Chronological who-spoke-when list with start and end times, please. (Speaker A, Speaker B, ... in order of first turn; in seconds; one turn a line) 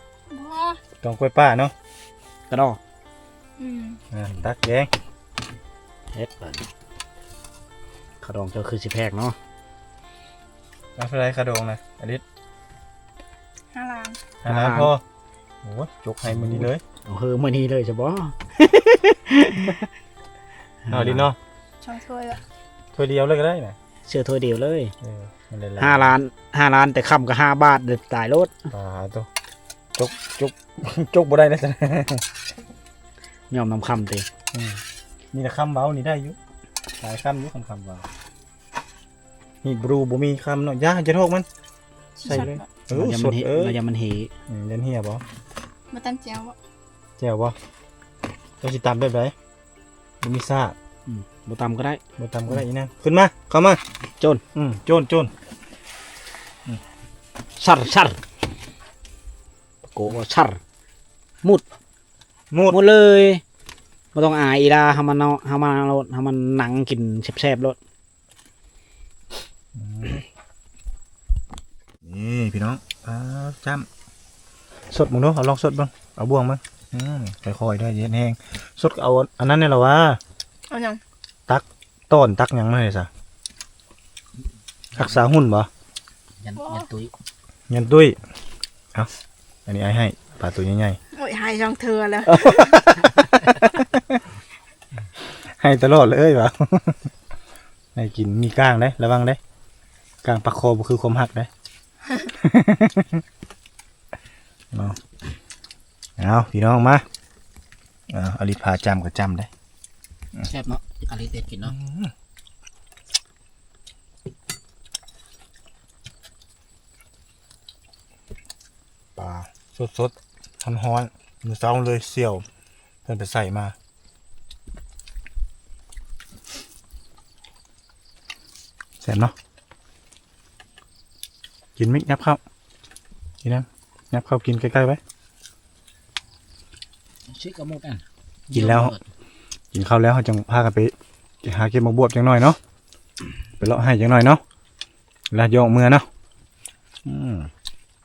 Speaker A: 0.3-0.8
Speaker B: 1.0-1.7
Speaker C: 2.5-2.8
Speaker A: 3.6-4.0
Speaker B: 4.1-4.9
Speaker C: 6.1-6.7
Speaker C: 8.2-9.4
Speaker B: 11.0-12.2
Speaker A: 13.7-14.2
Speaker B: 14.4-15.0
Speaker C: 14.4-14.9
Speaker B: 15.6-16.8
Speaker C: 16.3-19.9
Speaker C: 20.8-21.3
Speaker B: 20.9-21.4
Speaker A: 21.8-22.4
Speaker B: 22.9-23.8
Speaker C: 24.0-24.9
Speaker B: 25.0-26.1
Speaker C: 25.8-28.7
Speaker B: 28.7-29.3
Speaker B: 29.9-32.2
Speaker C: 33.5-34.3
Speaker B: 34.5-36.4
Speaker B: 37.0-38.1
Speaker B: 39.6-41.5
Speaker A: 42.1-42.6
Speaker B: 42.2-43.8
Speaker C: 42.3-44.3
Speaker B: 44.5-45.2
Speaker A: 45.9-46.5
Speaker B: 47.2-47.6
Speaker B: 48.6-49.3
Speaker B: 50.2-50.8
Speaker C: 51.0-52.6
Speaker B: 52.2-53.8
Speaker B: 54.5-55.3
Speaker C: 57.6-58.2
Speaker C: 59.8-60.6
Speaker B: 62.5-62.8
Speaker C: 62.7-63.4
Speaker C: 64.1-67.8
Speaker B: 69.8-70.2
Speaker B: 72.0-73.9
Speaker B: 74.9-80.2
Speaker A: 80.7-81.0
Speaker B: 81.5-83.1
Speaker C: 84.9-85.2
Speaker B: 84.9-85.7
Speaker C: 86.4-87.1
Speaker A: 86.6-86.9
Speaker B: 87.7-88.2
Speaker B: 89.7-91.0
Speaker A: 91.1-92.8
Speaker B: 92.2-94.2
Speaker B: 95.3-97.1
Speaker B: 97.9-99.4
Speaker B: 100.2-101.5
Speaker B: 102.3-103.2
Speaker B: 104.7-105.0
Speaker B: 106.2-107.0
Speaker B: 108.1-109.5
Speaker C: 110.4-111.8
Speaker B: 111.6-112.1
Speaker B: 119.2-122.4
Speaker B: 123.0-123.7
Speaker B: 129.0-129.3
Speaker B: 131.8-132.4
Speaker B: 133.4-135.0
Speaker C: 137.2-139.0
Speaker B: 138.5-138.9
Speaker B: 139.7-142.6
Speaker B: 143.6-144.4
Speaker B: 145.3-146.1
Speaker B: 147.0-147.5